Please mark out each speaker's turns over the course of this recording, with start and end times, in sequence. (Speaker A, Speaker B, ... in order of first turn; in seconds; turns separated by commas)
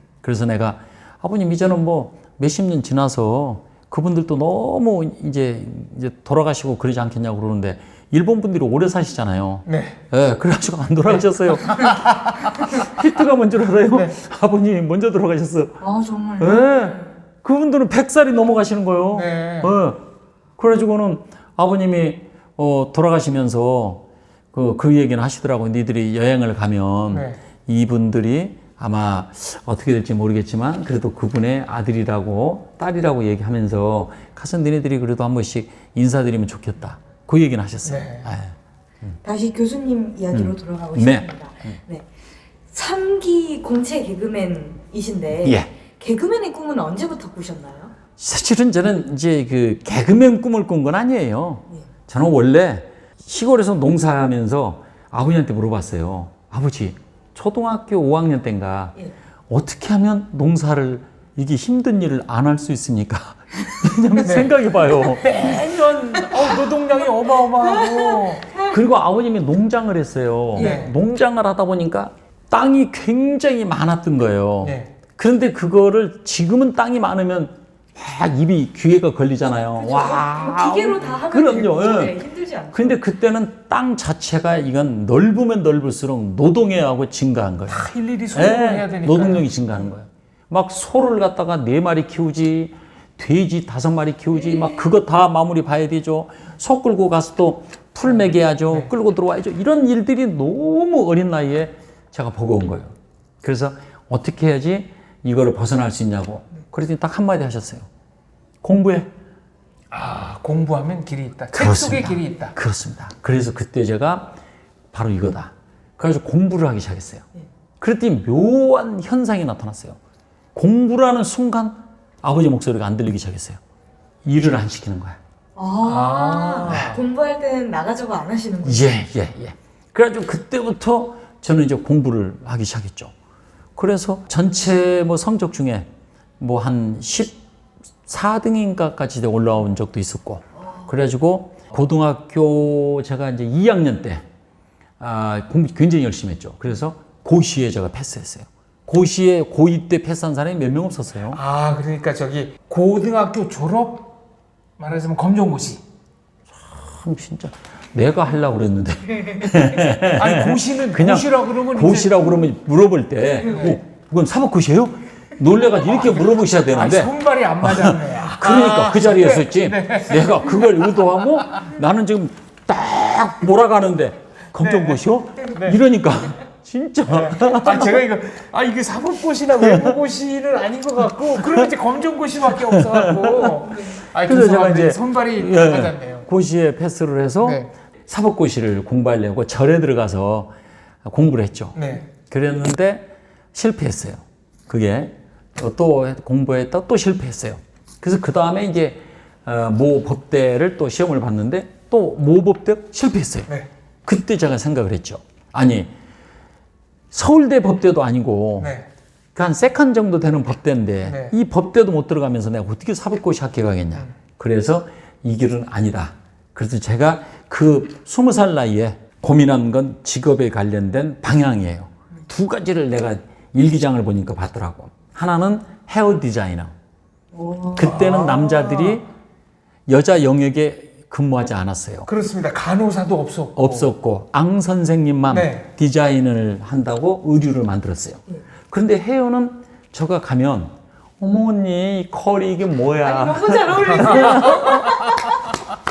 Speaker A: 0.2-15.8, Speaker B: 9.7-10.0, Speaker B: 11.6-12.4, Speaker C: 15.8-17.1, Speaker A: 16.4-20.1, Speaker B: 19.1-19.7, Speaker A: 20.6-38.5, Speaker B: 27.1-27.4, Speaker B: 37.9-38.3, Speaker C: 39.2-42.1, Speaker A: 40.3-41.8, Speaker C: 42.7-48.0, Speaker A: 45.4-45.7, Speaker A: 48.2-59.0, Speaker A: 59.5-65.6, Speaker B: 64.2-68.5, Speaker C: 67.8-68.7, Speaker A: 68.6-82.2, Speaker C: 70.6-70.8, Speaker B: 70.6-71.0, Speaker B: 74.6-74.9, Speaker C: 79.8-83.0, Speaker A: 82.7-107.9, Speaker B: 87.7-89.5, Speaker A: 108.6-109.1, Speaker B: 109.9-112.5, Speaker A: 111.5-114.4, Speaker A: 114.9-117.2, Speaker A: 117.8-120.0, Speaker A: 120.5-123.6, Speaker A: 124.2-125.2, Speaker C: 125.6-128.9, Speaker B: 125.8-127.0, Speaker A: 126.7-126.9, Speaker A: 128.6-133.1, Speaker A: 133.8-135.9, Speaker A: 136.4-137.4, Speaker A: 138.1-144.2, Speaker A: 145.0-151.4, Speaker B: 151.3-154.2, Speaker B: 154.8-155.8, Speaker A: 156.6-177.9, Speaker B: 160.1-162.4, Speaker B: 163.5-163.8, Speaker B: 165.9-170.8, Speaker B: 174.6-175.8, Speaker B: 177.1-186.3, Speaker A: 179.6-180.0, Speaker A: 182.6-190.5, Speaker B: 187.4-187.7, Speaker A: 191.0-203.5, Speaker B: 191.8-192.1, Speaker A: 204.1-205.9, Speaker A: 207.1-208.8, Speaker B: 208.6-208.9, Speaker A: 209.3-226.7, Speaker B: 211.0-211.3, Speaker C: 227.3-228.0, Speaker A: 227.8-229.1, Speaker B: 227.8-229.0, Speaker A: 229.9-232.1, Speaker B: 232.1-233.9, Speaker A: 233.6-245.0, Speaker B: 235.3-235.7, Speaker C: 243.0-245.5